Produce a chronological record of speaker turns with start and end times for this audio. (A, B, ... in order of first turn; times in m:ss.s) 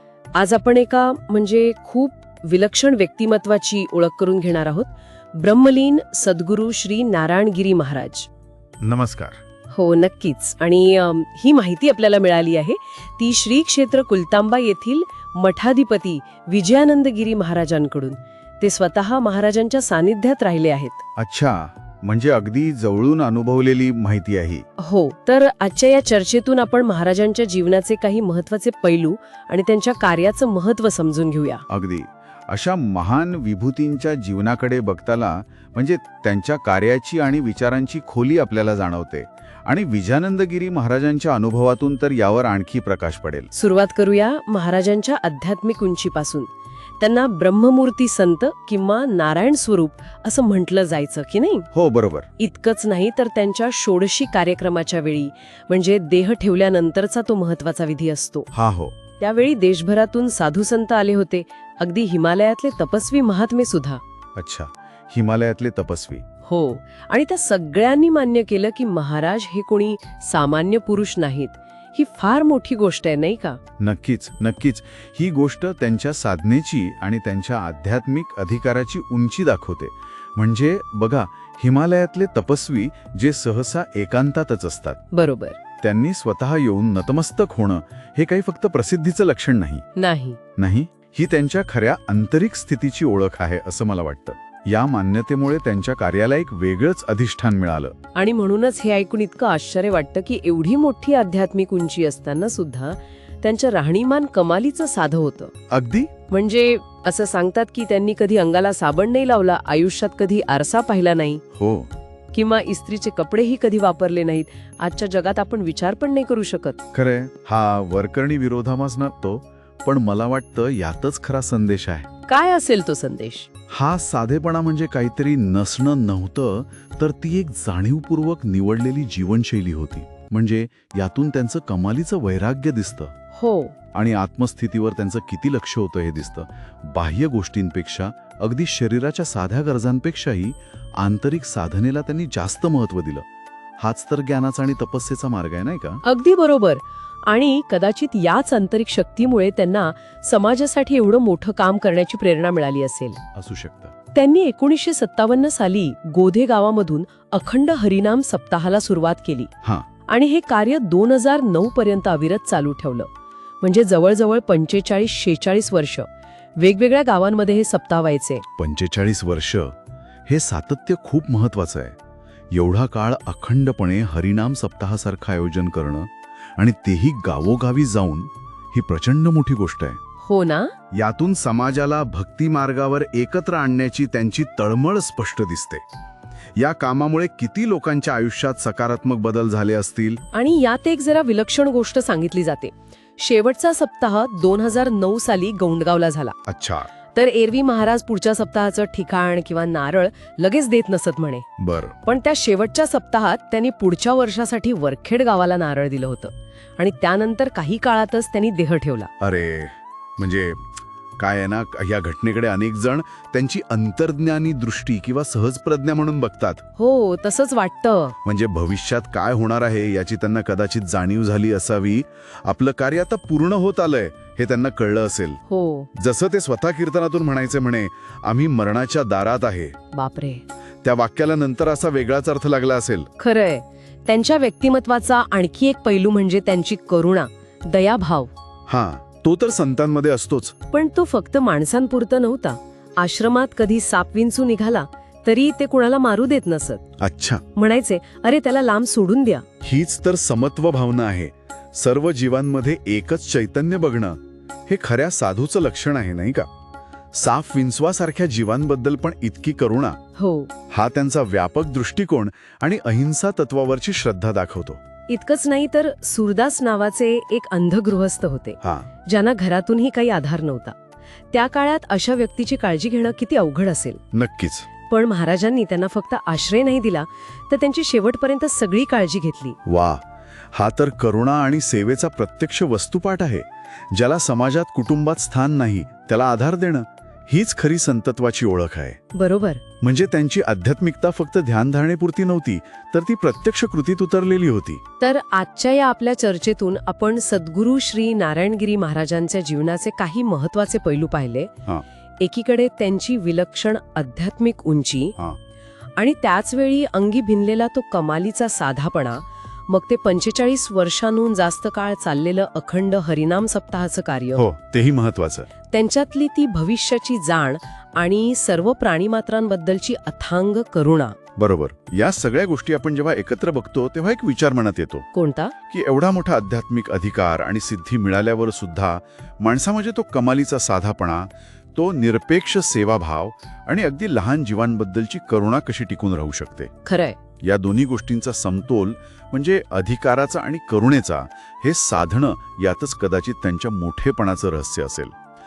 0:00.4-0:08.3 A
0:08.8-0:09.4 B
0:09.7-0:21.0 A
0:21.2-0:24.6 B
0:24.8-0:31.6 A
0:31.7-0:43.5 B
0:43.5-0:51.7 A
0:51.7-0:52.3 B
0:52.4-0:58.5 A
0:58.5-0:59.0 B
0:59.2-1:04.0 A
1:04.4-1:06.2 B
1:06.4-1:13.6 A
1:13.8-1:25.0 B
1:25.1-1:25.6 A
1:25.8-1:29.8 B
1:30.0-1:30.4 A
1:30.6-1:37.9 B
1:38.2-1:45.5 A
1:45.7-1:46.1 B
1:46.3-1:51.4 A
1:51.6-1:51.9 B
1:52.3-1:56.8 A
1:56.9-2:02.1 B
2:02.3-2:03.5 A
2:03.7-2:13.1 B
2:13.3-2:13.7 A
2:13.9-2:23.3 B
2:23.8-2:26.0 B
2:26.0-2:33.2 A
2:33.3-2:33.9 B
2:34.1-2:39.5 A
2:40.1-2:43.1 A
2:43.6-2:48.4 A
2:48.6-2:49.7 B
2:50.3-2:52.0 B
2:52.5-3:00.0 B
3:00.2-3:00.7 A
3:00.9-3:05.8 B
3:06.6-3:10.2 B
3:10.3-3:16.4 A
3:16.5-3:16.9 B
3:17.1-3:21.5 A
3:21.6-3:22.0 B
3:22.0-3:29.1 A
3:29.2-3:36.6 B
3:36.8-3:38.2 A
3:38.2-3:45.4 B
3:45.5-3:45.9 A
3:46.0-3:49.8 B
3:49.9-3:50.4 A
3:50.8-3:53.1 B
3:53.2-3:58.3 A
3:58.7-4:00.6 B
4:00.7-4:06.8 A
4:07.0-4:07.4 B
4:07.6-4:09.4 A
4:09.6-4:16.5 B
4:17.1-4:20.0 B
4:20.2-4:20.5 A
4:20.7-4:24.8 B
4:25.1-4:30.7 A
4:28.6-4:28.9 B
4:31.3-4:34.0 A
4:34.1-4:34.7 B
4:34.9-4:39.6 A
4:39.6-4:40.0 B
4:40.5-4:49.0 B
4:49.1-4:49.6 A
4:49.8-4:54.8 B
4:55.0-5:01.5 A
5:02.2-5:05.2 A
5:06.0-5:14.4 A
5:14.4-5:15.5 B
5:15.7-5:21.2 A
5:21.4-5:25.1 B
5:25.1-5:25.5 A
5:25.7-5:36.7 B
5:36.8-5:37.2 A
5:37.4-5:45.1 B